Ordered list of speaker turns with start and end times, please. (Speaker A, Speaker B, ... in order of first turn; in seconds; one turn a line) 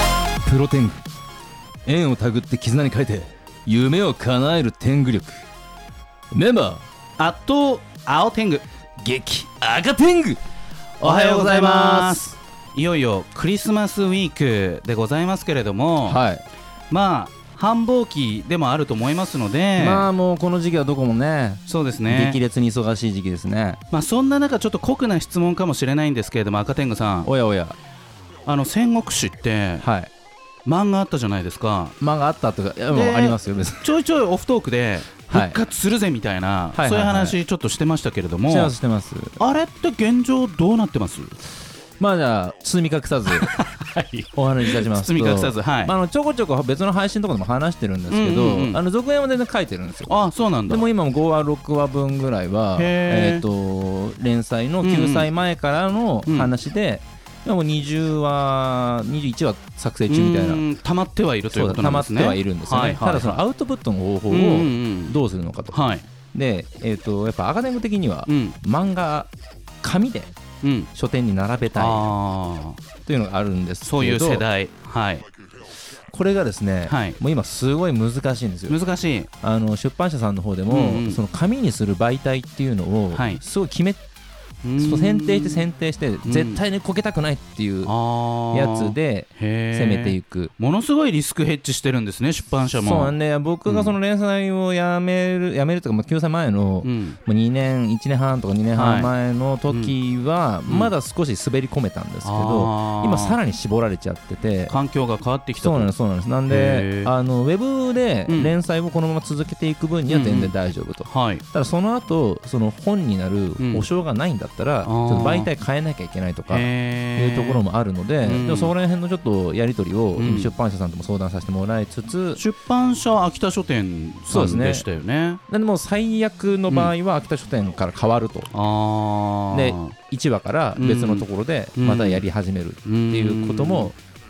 Speaker A: 0.4-1.0
Speaker A: 1.8-5.4
Speaker A: 6.3-6.8
Speaker B: 7.2-8.6
Speaker A: 9.0-10.4
Speaker A: 11.0-12.3
Speaker B: 11.0-16.2
Speaker A: 16.0-16.4
Speaker B: 16.9-20.1
Speaker A: 19.8-23.8
Speaker B: 21.7-22.4
Speaker B: 23.9-27.3
Speaker A: 27.2-27.8
Speaker B: 28.4-29.9
Speaker A: 29.8-30.1
Speaker B: 30.6-32.0
Speaker A: 32.0-33.9
Speaker B: 32.9-38.7
Speaker A: 35.3-35.6
Speaker A: 36.7-37.4
Speaker A: 38.5-39.4
Speaker B: 39.4-41.3
Speaker A: 42.0-43.5
Speaker B: 43.3-45.9
Speaker A: 44.4-50.1
Speaker B: 48.1-48.8
Speaker B: 50.1-50.9
Speaker A: 50.7-60.6
Speaker B: 52.8-53.4
Speaker B: 54.8-55.3
Speaker B: 60.1-63.4
Speaker A: 61.5-65.8
Speaker B: 64.3-65.2
Speaker B: 65.7-66.0
Speaker A: 66.3-69.3
Speaker B: 68.3-68.6
Speaker A: 69.8-70.3
Speaker B: 70.6-70.9
Speaker A: 70.9-72.1
Speaker B: 71.7-72.8
Speaker A: 73.0-74.4
Speaker B: 73.8-75.2
Speaker A: 76.1-78.8
Speaker B: 76.9-77.2
Speaker B: 78.7-79.3
Speaker A: 79.4-84.0
Speaker B: 80.7-81.2
Speaker B: 83.1-83.4
Speaker B: 84.6-85.7
Speaker A: 84.8-87.9
Speaker B: 86.2-86.6
Speaker B: 87.8-94.0
Speaker A: 88.5-90.5
Speaker A: 92.8-104.8
Speaker B: 96.8-97.2
Speaker B: 98.7-99.1
Speaker B: 99.7-100.0
Speaker B: 100.7-100.9
Speaker B: 102.2-103.4
Speaker B: 104.7-105.9
Speaker A: 105.6-122.4
Speaker B: 106.5-107.1
Speaker B: 108.3-108.5
Speaker B: 110.1-110.5
Speaker B: 111.0-111.4
Speaker B: 113.6-113.8
Speaker B: 114.8-115.5
Speaker B: 116.5-117.6
Speaker B: 118.2-118.7
Speaker B: 120.2-120.5
Speaker B: 122.3-125.4
Speaker A: 124.3-124.9
Speaker A: 125.5-128.5
Speaker B: 126.7-126.9
Speaker B: 128.5-129.9
Speaker A: 129.5-133.9
Speaker B: 130.8-132.2
Speaker B: 132.8-133.9